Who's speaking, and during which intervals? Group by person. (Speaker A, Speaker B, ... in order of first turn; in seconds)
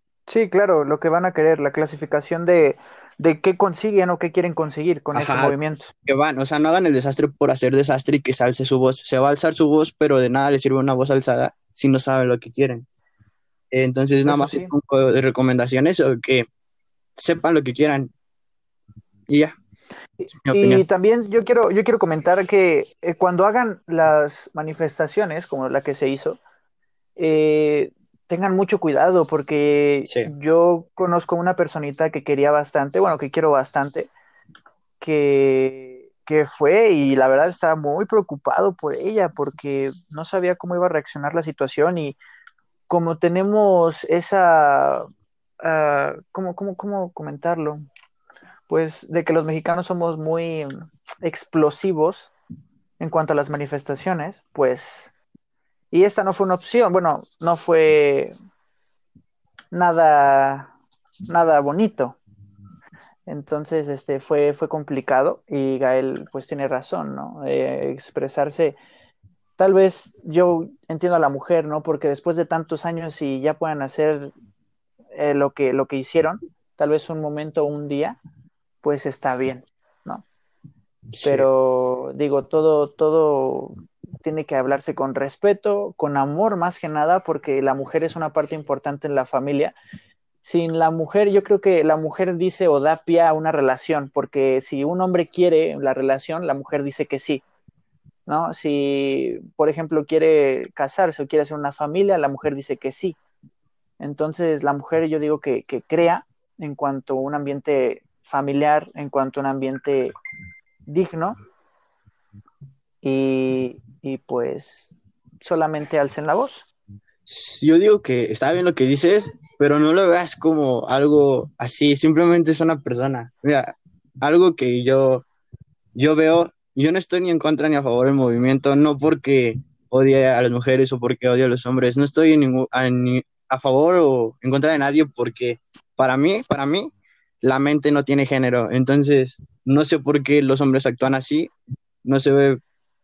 Speaker A: 0.3-5.9, 14.2-14.7, 20.2-26.4, 27.2-34.1, 35.0-42.2, 42.9-45.1, 45.6-47.8, 48.7-52.3, 53.0-55.1, 55.9-58.3, 59.7-60.7, 61.3-62.2, 63.3-68.8, 69.6-74.3, 75.1-78.2, 78.8-80.2, 81.2-89.8, 90.4-97.4, 98.3-103.2, 104.0-110.1, 110.8-111.3, 113.0-116.7
Speaker B: 5.1-12.8, 13.7-16.4, 17.2-18.1, 19.3-19.5, 20.4-20.8, 81.1-81.5, 117.3-125.2, 126.0-141.5, 142.0-142.6